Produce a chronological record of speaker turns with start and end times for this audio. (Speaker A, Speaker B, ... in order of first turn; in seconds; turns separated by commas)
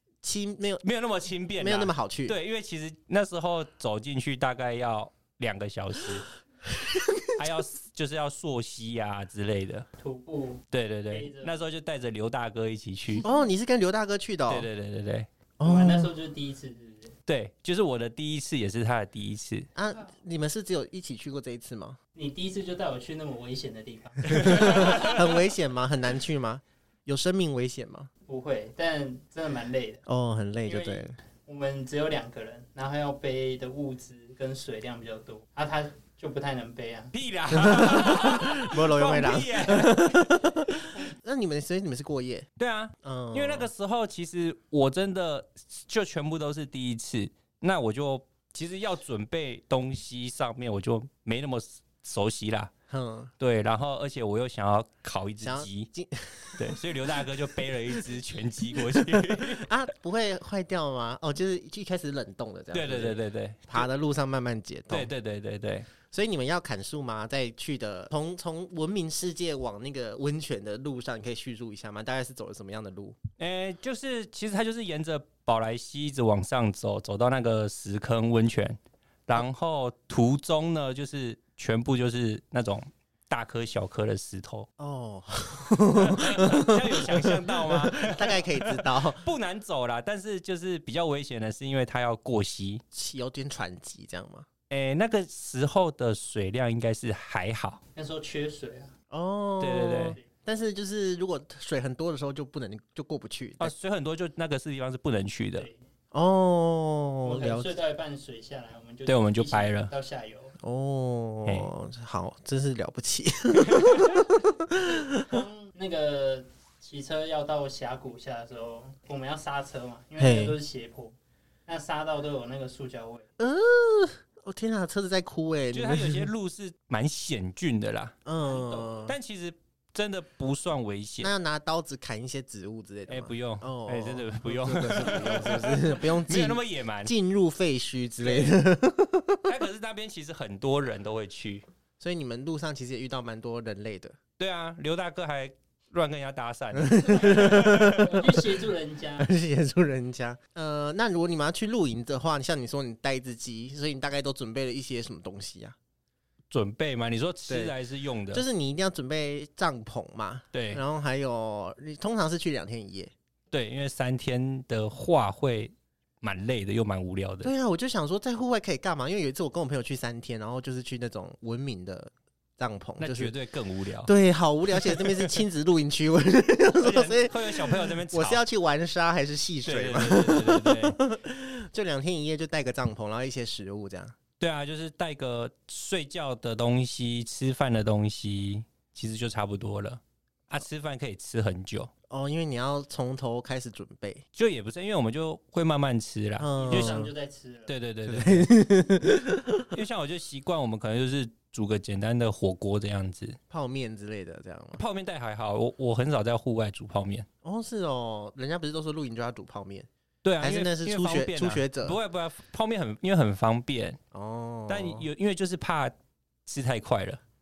Speaker A: 0.2-0.8, Speaker B: 0.8-6.2, Speaker A: 1.6-2.4, Speaker A: 6.7-7.4, Speaker B: 7.4-9.8, Speaker C: 10.0-11.6, Speaker B: 10.7-13.2, Speaker A: 13.2-14.7, Speaker B: 14.5-15.3, Speaker A: 15.6-16.1, Speaker C: 15.6-17.1, Speaker B: 17.3-19.7, Speaker A: 19.7-22.0, Speaker C: 22.1-25.3, Speaker A: 24.3-28.1, Speaker C: 28.3-30.0, Speaker A: 30.1-31.1, Speaker C: 30.6-37.1, Speaker B: 37.1-40.2, Speaker A: 37.5-42.5, Speaker B: 42.6-52.7, Speaker A: 43.0-43.7, Speaker A: 52.9-53.3, Speaker B: 53.4-55.9, Speaker A: 55.4-57.3, Speaker B: 56.6-59.7, Speaker A: 58.7-65.1, Speaker B: 62.7-63.9, Speaker B: 64.9-65.9, Speaker A: 66.1-73.2, Speaker B: 73.4-84.7, Speaker A: 84.8-89.2, Speaker B: 85.9-92.8, Speaker A: 92.9-94.5, Speaker B: 94.7-97.8, Speaker C: 97.9-98.9, Speaker A: 99.1-103.7, Speaker B: 99.6-100.2, Speaker B: 103.6-105.7, Speaker A: 106.1-107.7, Speaker C: 107.2-110.5, Speaker B: 109.1-109.9, Speaker A: 110.6-115.4, Speaker B: 111.4-111.7, Speaker B: 113.7-114.1, Speaker C: 115.2-121.1, Speaker A: 120.2-120.6, Speaker C: 121.7-123.3, Speaker A: 123.4-126.3, Speaker B: 125.7-128.1, Speaker A: 128.2-129.1, Speaker C: 128.4-129.1, Speaker B: 129.1-131.3, Speaker A: 131.2-139.5, Speaker B: 133.1-137.1, Speaker B: 138.2-138.5, Speaker B: 139.4-141.7, Speaker A: 142.0-144.2, Speaker B: 144.4-148.0, Speaker A: 146.7-148.4, Speaker C: 148.0-149.3, Speaker A: 149.2-155.8, Speaker B: 156.5-158.4, Speaker A: 157.5-157.7, Speaker A: 158.3-163.1, Speaker B: 160.5-160.8, Speaker B: 163.5-167.5, Speaker A: 167.4-173.3, Speaker B: 173.0-174.1, Speaker A: 174.0-184.1, Speaker B: 174.9-175.3, Speaker B: 176.8-178.4, Speaker B: 179.6-181.0, Speaker B: 184.4-191.9, Speaker A: 192.1-194.2, Speaker B: 194.3-196.9, Speaker A: 196.4-197.1, Speaker C: 196.6-197.7, Speaker B: 197.7-198.5, Speaker A: 198.1-199.7, Speaker B: 199.7-203.4, Speaker A: 203.5-204.8, Speaker B: 204.8-207.3, Speaker A: 207.4-209.9, Speaker B: 210.2-214.0, Speaker A: 210.4-212.0, Speaker A: 214.1-215.1, Speaker B: 214.7-215.9, Speaker B: 216.4-217.2